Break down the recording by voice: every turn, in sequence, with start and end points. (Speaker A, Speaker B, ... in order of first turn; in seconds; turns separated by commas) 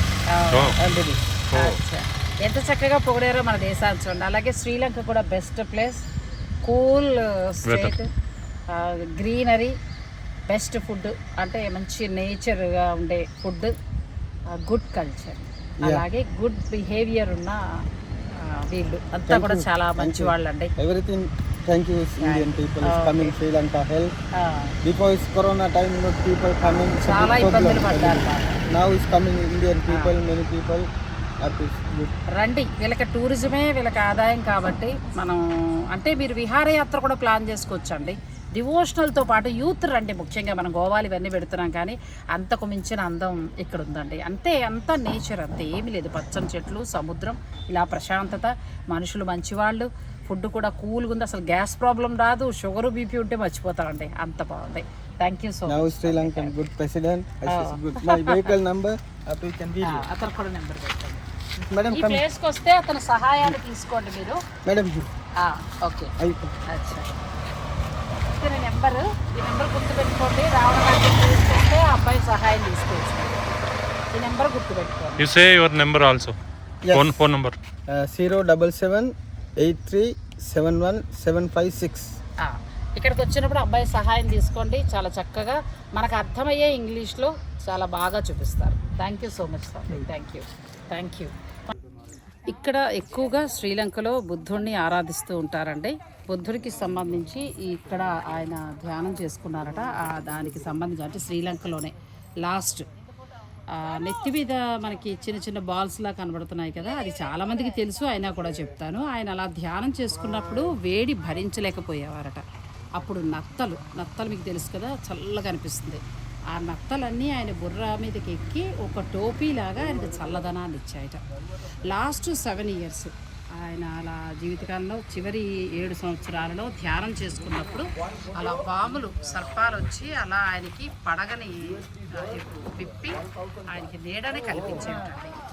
Speaker A: 0.3-0.8, Speaker B: 0.8-1.4, Speaker A: 1.5-6.0, Speaker A: 6.6-8.1, Speaker C: 7.7-7.9, Speaker A: 8.7-9.8, Speaker A: 10.5-13.7, Speaker A: 14.5-17.6, Speaker A: 18.4-20.7, Speaker B: 19.3-24.1, Speaker A: 22.2-23.4, Speaker A: 24.4-24.8, Speaker B: 24.8-30.9, Speaker A: 26.9-28.6, Speaker B: 31.4-32.1, Speaker A: 32.4-56.5, Speaker B: 55.7-60.0, Speaker A: 57.5-58.5, Speaker A: 59.8-61.2, Speaker B: 61.6-62.2, Speaker A: 61.9-64.4, Speaker B: 64.7-65.1, Speaker A: 65.4-66.1, Speaker B: 66.2-66.5, Speaker A: 66.7-67.1, Speaker A: 68.1-73.6, Speaker A: 74.1-75.3, Speaker C: 75.2-76.4, Speaker B: 76.8-77.2, Speaker C: 77.0-77.6, Speaker B: 77.9-82.1, Speaker A: 82.4-91.3, Speaker A: 92.5-102.9, Speaker A: 103.7-112.4, Speaker A: 113.0-121.2, Speaker A: 121.9-135.4